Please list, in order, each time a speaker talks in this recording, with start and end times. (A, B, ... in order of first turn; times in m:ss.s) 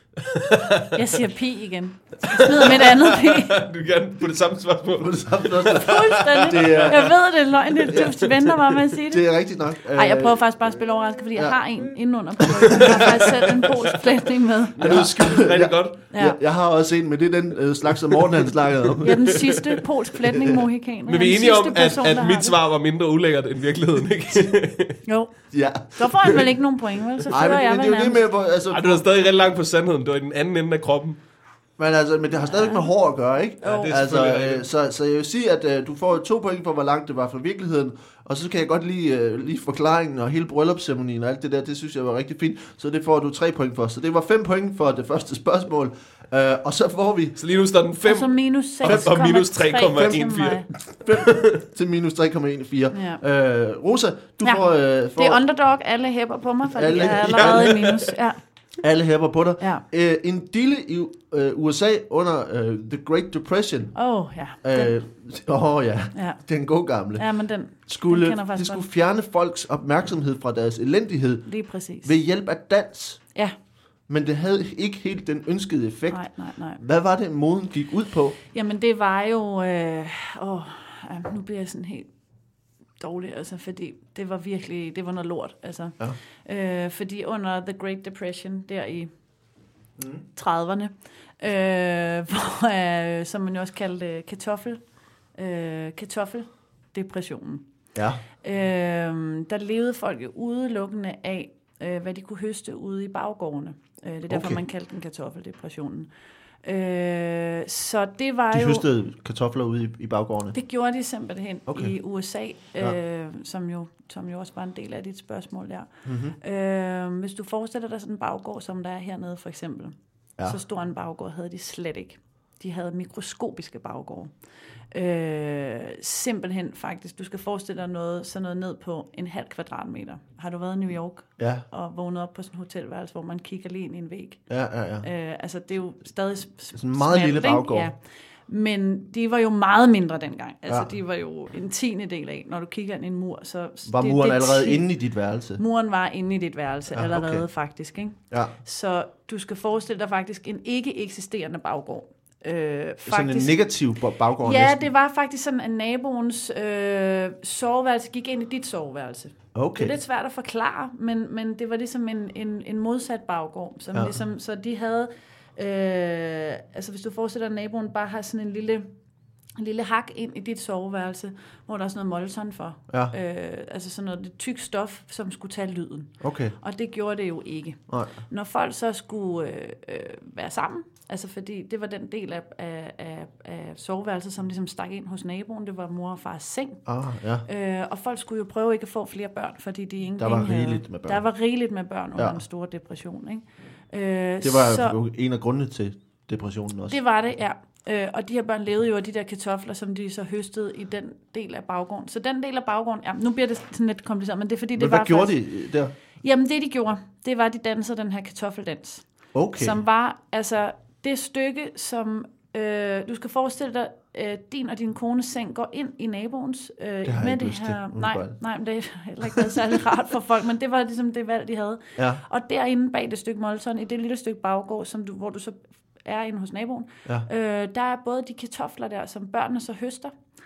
0:00.2-0:01.0 A
0:00.9-0:03.6 B
0:02.3-0:07.1 A
0:05.0-0:07.1 C
0:05.8-0:09.3 B
0:07.9-0:08.2 C
0:07.9-0:08.6 A
0:09.1-0:10.6 C
0:09.9-0:15.3 B
0:12.8-0:13.5 A
0:14.8-0:16.0 A
0:14.8-0:19.4 C
0:16.1-0:16.4 B
0:18.9-0:19.5 A
0:19.0-0:22.6 B
0:20.2-0:20.6 C
0:21.1-0:25.0 A
0:25.0-0:28.2 B
0:25.5-0:26.5 C
0:27.3-0:29.0 C
0:28.7-0:31.2 A
0:31.8-0:47.4 C
0:32.4-0:32.9 B
0:33.6-0:34.7 A
0:33.6-0:33.9 B
0:47.4-0:51.5 A
0:48.0-0:50.7 B
0:48.8-0:49.1 C
0:49.9-0:50.2 C
0:50.8-0:55.4 C
0:52.9-0:53.2 B
0:54.4-0:58.4 B
0:56.6-0:58.0 C
0:57.4-0:57.9 A
0:58.8-1:04.0 C
0:59.6-0:59.8 B
1:03.9-1:04.9 B
1:04.6-1:13.3 C
1:06.1-1:06.5 B
1:07.2-1:08.8 B
1:11.5-1:12.1 B
1:14.1-1:18.4 C
1:16.1-1:16.8 B
1:18.5-1:22.1 B
1:23.0-1:29.1 B
1:30.0-1:30.3 C
1:30.4-1:37.8 B
1:37.9-1:38.2 C
1:38.3-1:46.1 B
1:44.3-1:44.6 C
1:46.6-1:48.8 B
1:48.5-1:50.6 C
1:50.5-2:04.3 B
1:51.7-1:52.0 C
1:56.0-1:56.4 C
2:04.9-2:14.5 B
2:11.4-2:11.6 C
2:14.5-2:15.1 C
2:15.0-2:24.9 B
2:16.8-2:17.9 C
2:23.8-2:25.6 C
2:25.6-2:33.6 B
2:26.9-2:27.5 C
2:33.1-2:34.9 C
2:34.4-2:48.9 B
2:39.6-2:40.0 C
2:43.9-2:44.2 C
2:49.6-3:06.8 B
2:56.2-2:56.6 C
2:57.9-2:58.2 C
3:06.9-3:07.5 C
3:07.4-3:15.0 B
3:10.2-3:11.2 C
3:12.2-3:12.4 C
3:14.4-3:17.0 C
3:16.9-3:25.4 B
3:24.8-3:25.9 C
3:26.2-3:50.2 B
3:29.3-3:29.8 C
3:37.0-3:38.4 C
3:42.0-3:42.2 C